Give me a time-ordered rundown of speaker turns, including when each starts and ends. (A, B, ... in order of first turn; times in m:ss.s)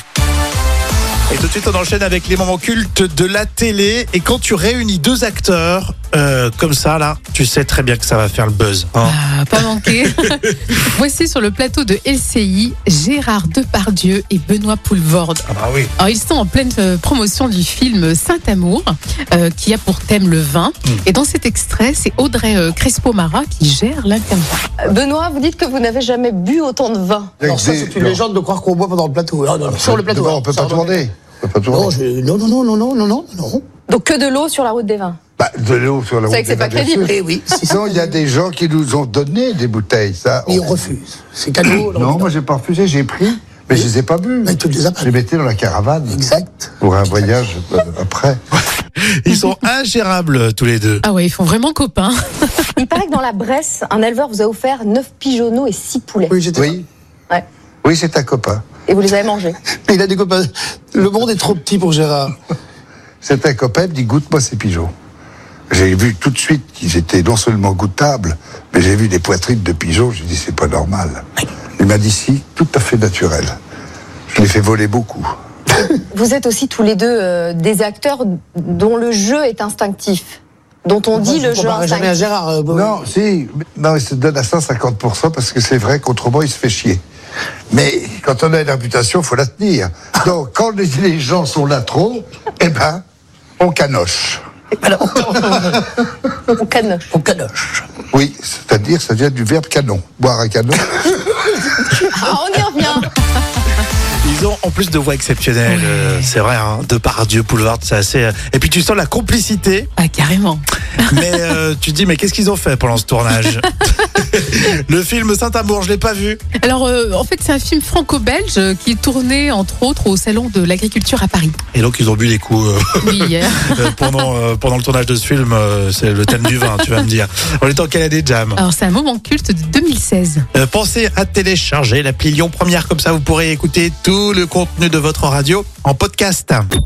0:01.3-0:09.9 A
0:09.0-0:24.6 B
0:15.5-0:15.9 A
0:24.8-0:27.3 C
0:27.4-0:28.2 D
0:27.4-0:31.0 E
0:29.8-0:31.9 D
0:31.7-0:33.6 E
0:33.9-0:35.2 C
0:35.4-0:40.8 D
0:36.3-0:37.1 C
0:37.1-0:37.8 E
0:40.5-0:42.3 E
0:41.7-0:46.2 D
0:44.4-0:45.1 E
0:46.1-0:46.7 E
0:46.8-0:48.4 D
0:49.0-0:51.0 A
0:51.0-0:52.6 B
0:52.8-0:56.4 C
0:56.3-0:56.7 E
0:56.5-0:56.8 D
0:57.8-0:58.6 D
0:58.9-0:59.6 C
0:59.8-1:02.3 E
1:03.2-1:04.9 D
1:05.7-1:11.2 D
1:11.8-1:13.6 D
1:14.3-1:15.3 D
1:16.1-1:22.2 C
1:21.1-1:23.0 E
1:22.7-1:27.0 D
1:27.7-1:33.0 D
1:33.6-1:34.4 D
1:34.8-1:35.9 E
1:36.5-1:37.1 C
1:37.1-1:37.8 E
1:38.1-1:41.6 D
1:41.9-1:43.1 C
1:44.2-1:49.9 A
1:45.7-1:46.2 B
1:50.0-1:51.2 B
1:51.0-1:56.4 A
1:56.6-2:01.6 B
2:01.7-2:08.6 A
2:03.0-2:04.0 B
2:08.5-2:10.4 B
2:10.5-2:16.7 A